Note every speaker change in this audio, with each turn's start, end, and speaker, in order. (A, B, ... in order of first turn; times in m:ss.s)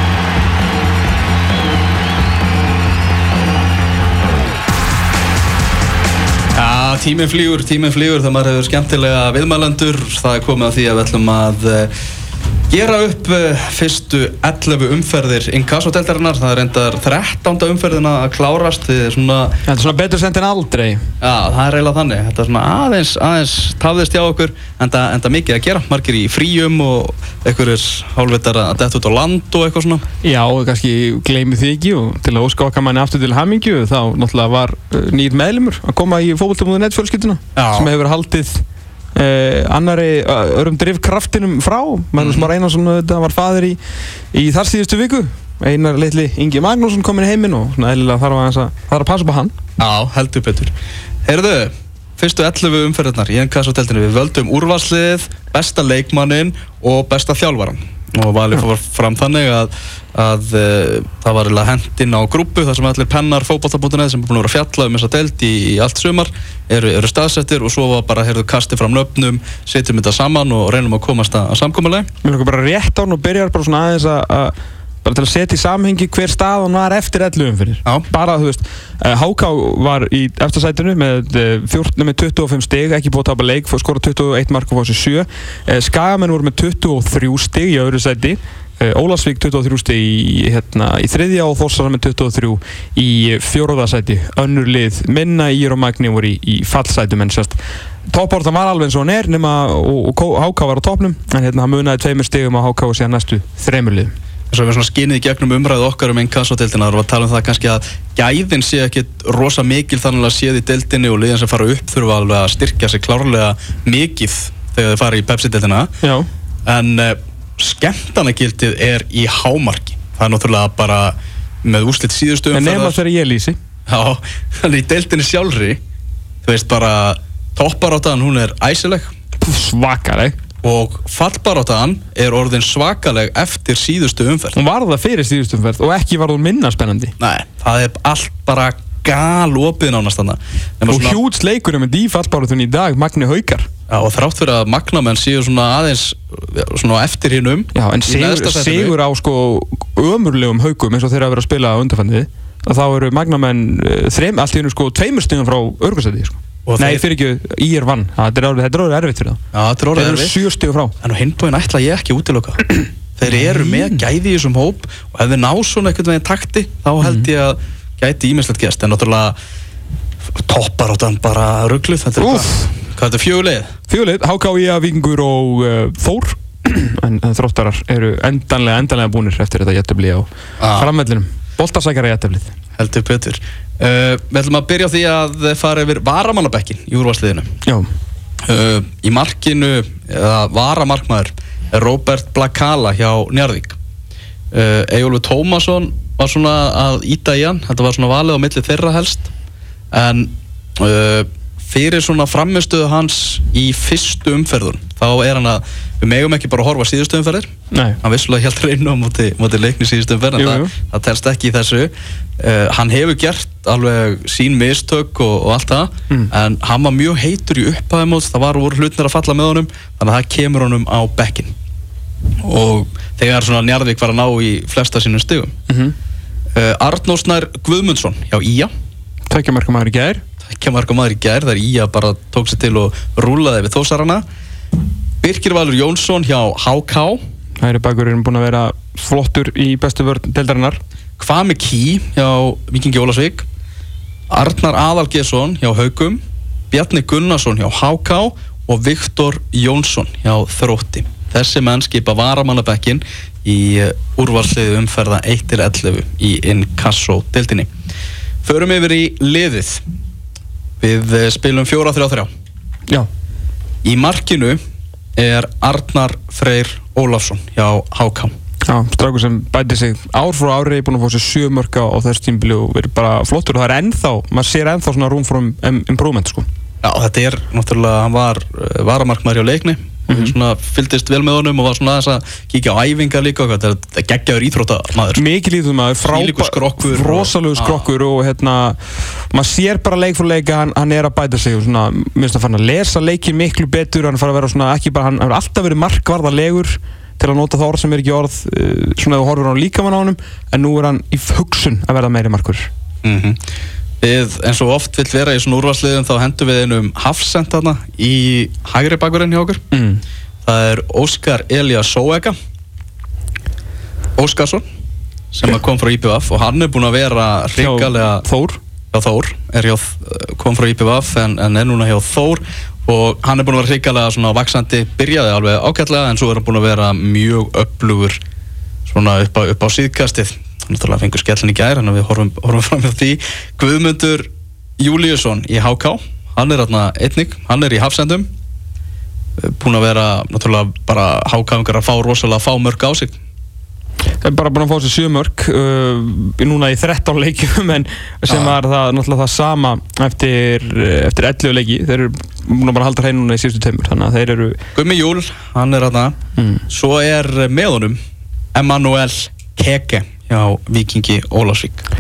0:06.5-0:11.9 A
0:12.7-0:19.6 A
0:19.7-0:21.0 B
0:21.2-0:30.0 A
0:30.2-0:38.6 B
0:37.6-0:37.9 A
0:39.2-0:43.8 B
0:42.2-0:42.5 A
0:44.3-0:49.5 B
0:49.8-0:50.7 A
0:51.2-1:12.1 A
1:12.2-1:37.6 B
1:38.1-1:44.1 B
1:44.5-1:55.9 A
1:56.0-1:56.3 B
1:56.7-2:03.0 A
2:02.5-2:03.6 B
2:03.9-2:05.8 A
2:06.4-2:09.1 A
2:09.4-2:10.4 B
2:10.6-2:14.6 A
2:14.5-2:17.2 B
2:17.2-2:21.2 A
2:20.9-2:23.7 B
2:23.9-2:28.9 A
2:27.7-2:39.4 B
2:36.7-2:37.0 A
2:39.5-2:40.3 A
2:39.9-2:40.9 B
2:41.0-2:49.4 A
2:43.3-2:44.0 B
2:50.4-2:53.7 A
2:52.2-2:52.7 B
2:53.9-3:02.5 B
3:00.6-3:00.9 A
3:02.8-3:07.5 A
3:08.5-3:13.8 A
3:14.5-3:19.3 A
3:19.9-3:27.5 A
3:27.7-3:28.0 B
3:28.0-3:41.5 A
3:30.4-3:30.7 B
3:42.4-3:45.5 A
3:45.7-3:45.9 B
3:46.6-3:48.7 A
3:49.3-3:50.2 B
3:50.5-3:54.2 A
3:55.2-3:57.2 A
3:57.6-4:00.8 B
4:01.2-4:03.4 A
4:04.3-4:17.7 A
4:18.4-4:19.8 A
4:20.8-4:22.3 A
4:23.8-4:24.6 A
4:25.2-4:28.3 A
4:28.7-4:36.4 B
4:36.8-4:45.2 A
4:40.1-4:40.4 B
4:45.1-5:02.7 B
4:46.0-4:47.8 A
5:03.0-5:03.4 A
5:04.0-5:09.6 A
5:09.7-5:10.0 B
5:10.4-5:12.4 A
5:14.2-5:14.6 A
5:15.3-5:18.2 A
5:17.6-5:18.6 B
5:18.9-5:28.2 A
5:28.9-5:38.3 A
5:39.4-5:43.1 A
5:44.2-5:54.6 B
5:48.3-5:48.6 A
5:54.8-5:56.2 A
5:56.4-5:56.6 B
5:56.7-5:58.0 A
5:58.6-6:01.8 A